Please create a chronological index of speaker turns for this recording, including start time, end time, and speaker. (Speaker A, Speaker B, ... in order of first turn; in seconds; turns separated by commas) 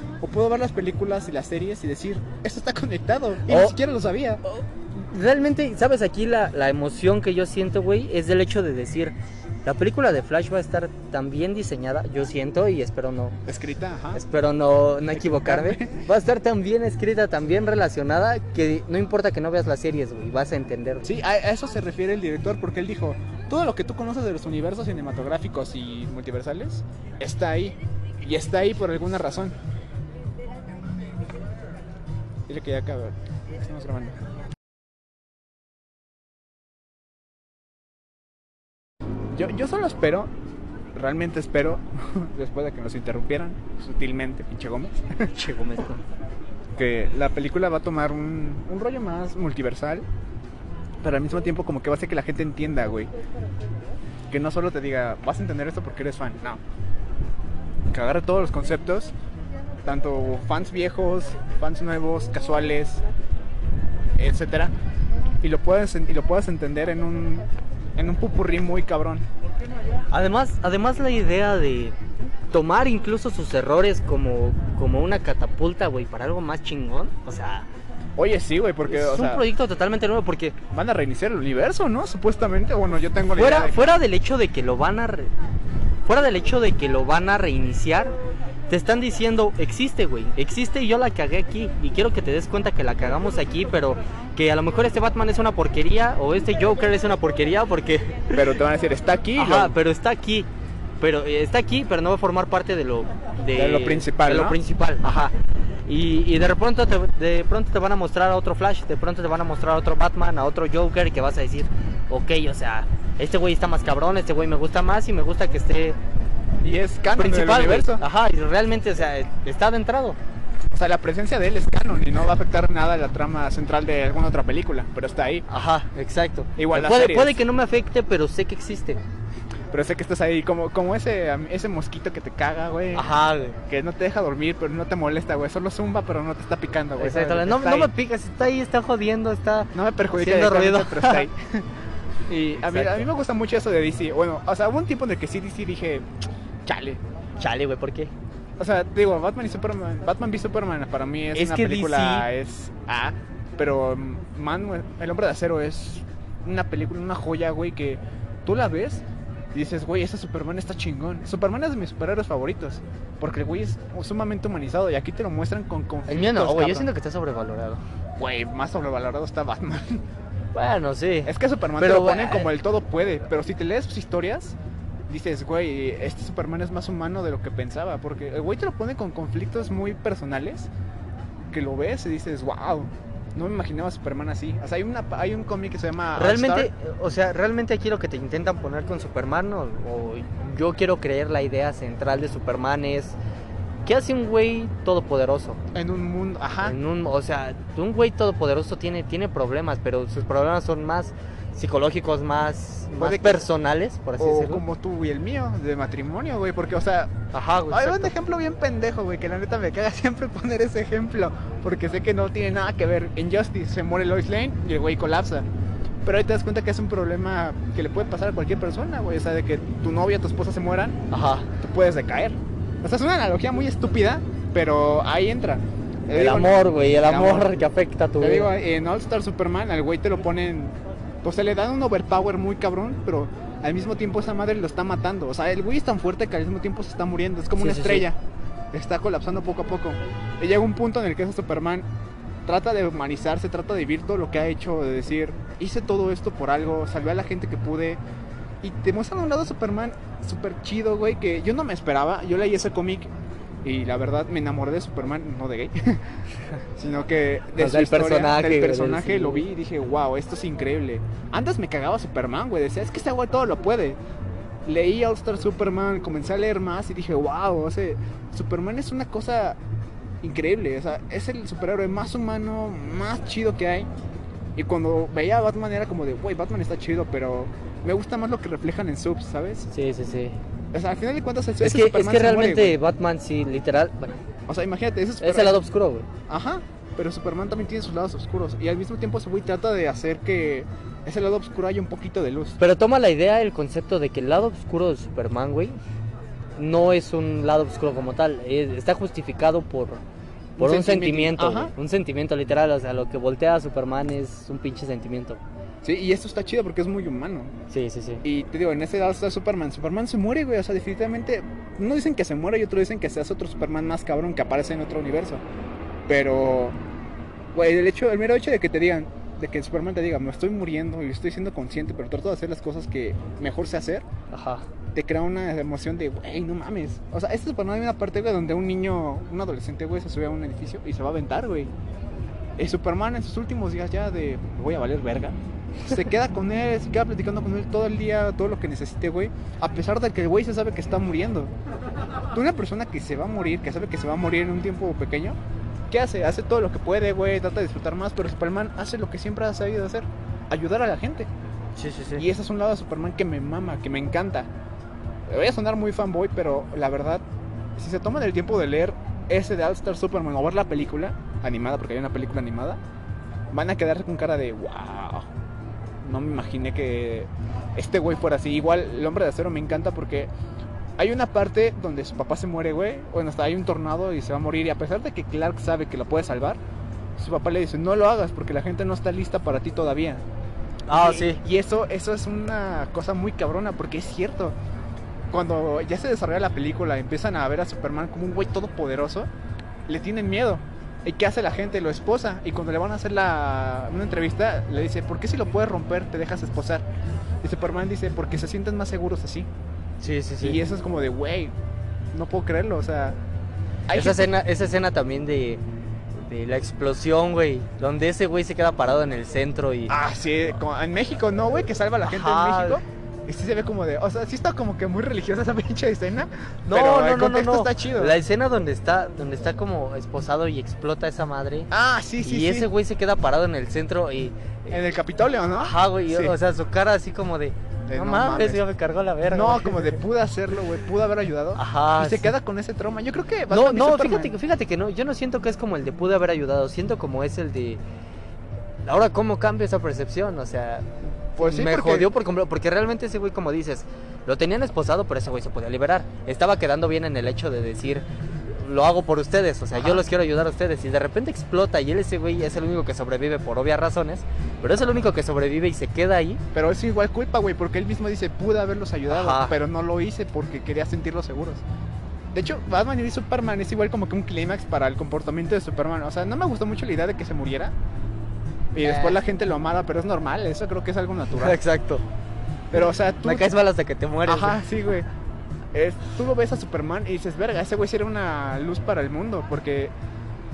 Speaker A: 0.2-4.4, Speaker B: 3.5-3.8, Speaker B: 4.6-9.1, Speaker B: 9.6-13.3, Speaker A: 13.4-14.2, Speaker B: 14.1-21.1, Speaker A: 15.1-16.0, Speaker A: 21.0-29.5, Speaker A: 32.5-34.2, Speaker A: 39.3-40.3, Speaker A: 40.9-45.4, Speaker B: 45.3-46.0, Speaker A: 46.7-50.0, Speaker A: 51.0-53.1, Speaker A: 54.3-56.6, Speaker A: 57.9-59.1, Speaker A: 59.8-63.0, Speaker A: 64.2-64.7, Speaker A: 65.4-69.2, Speaker B: 70.1-72.0, Speaker B: 72.5-77.7, Speaker A: 78.2-79.4, Speaker B: 78.9-80.5, Speaker A: 80.7-84.0, Speaker B: 83.3-85.3, Speaker B: 86.0-88.1, Speaker B: 88.7-98.5, Speaker A: 98.3-99.8, Speaker B: 99.3-100.5, Speaker B: 101.0-105.3, Speaker A: 103.5-104.6, Speaker B: 105.8-116.0, Speaker A: 116.6-118.0, Speaker B: 117.2-120.2, Speaker A: 120.7-125.5, Speaker B: 125.5-129.0, Speaker A: 126.6-127.4, Speaker A: 129.7-133.1, Speaker B: 132.9-133.6, Speaker A: 133.7-137.9, Speaker B: 137.0-141.3, Speaker A: 139.7-141.7, Speaker A: 142.3-146.1, Speaker B: 142.5-143.1, Speaker A: 146.7-147.0, Speaker B: 147.4-148.1, Speaker A: 148.6-166.9, Speaker B: 151.3-152.3, Speaker B: 166.1-167.8, Speaker A: 168.2-170.0, Speaker B: 170.5-172.5, Speaker A: 171.2-174.6, Speaker A: 175.1-180.7, Speaker A: 181.5-186.7, Speaker B: 186.2-193.2, Speaker B: 193.8-195.6, Speaker A: 195.7-196.8, Speaker B: 196.6-204.6, Speaker A: 203.0-203.5, Speaker A: 204.2-215.4, Speaker B: 207.3-208.2, Speaker A: 216.0-221.0, Speaker B: 221.1-221.5, Speaker A: 221.6-227.5, Speaker B: 226.1-228.5, Speaker A: 228.2-238.2, Speaker B: 237.6-238.1, Speaker A: 238.7-241.8, Speaker A: 242.4-248.0, Speaker A: 248.6-253.1, Speaker A: 253.6-256.2, Speaker A: 256.8-264.0, Speaker B: 257.6-259.4, Speaker A: 264.6-269.6, Speaker A: 270.2-273.9, Speaker A: 274.6-279.7, Speaker B: 279.7-280.4, Speaker A: 280.7-282.8, Speaker B: 281.6-284.2, Speaker A: 284.5-285.6, Speaker B: 285.2-286.1, Speaker A: 286.3-292.6, Speaker B: 292.6-295.8, Speaker B: 296.6-300.0, Speaker A: 300.6-301.7, Speaker B: 300.6-305.4, Speaker A: 305.8-307.5, Speaker B: 307.7-308.2, Speaker A: 308.2-315.4, Speaker A: 316.1-316.8, Speaker A: 317.5-324.0, Speaker B: 324.3-324.7, Speaker A: 324.9-331.7, Speaker A: 332.6-341.5, Speaker A: 342.3-345.4, Speaker A: 345.9-351.3, Speaker B: 351.8-352.2, Speaker A: 352.2-354.5, Speaker A: 355.3-357.2, Speaker A: 357.8-362.8, Speaker A: 363.5-365.3, Speaker A: 366.0-370.3, Speaker A: 371.0-376.6, Speaker A: 377.2-380.2, Speaker B: 380.9-381.4, Speaker A: 380.9-384.5, Speaker A: 385.3-389.3, Speaker A: 389.9-396.8, Speaker A: 397.4-399.5, Speaker B: 400.0-400.6, Speaker A: 400.4-401.5, Speaker A: 402.1-403.2, Speaker A: 403.9-404.3, Speaker B: 403.9-405.6, Speaker B: 406.1-409.9, Speaker A: 409.9-418.2, Speaker B: 412.0-412.8, Speaker B: 416.7-421.7, Speaker A: 421.7-422.7, Speaker B: 422.2-424.8, Speaker A: 424.7-426.3, Speaker B: 425.5-430.0, Speaker A: 427.9-428.6, Speaker A: 429.3-434.3, Speaker B: 431.6-432.3, Speaker B: 433.5-437.8, Speaker B: 438.8-448.0, Speaker A: 441.4-442.1, Speaker B: 448.6-456.4, Speaker A: 449.7-450.0, Speaker A: 456.5-461.6, Speaker B: 459.1-459.6, Speaker A: 462.3-467.7, Speaker A: 468.7-471.6, Speaker B: 468.8-469.2, Speaker B: 471.3-472.0, Speaker A: 472.7-473.5, Speaker B: 473.2-474.6, Speaker A: 474.2-475.1, Speaker A: 475.7-479.9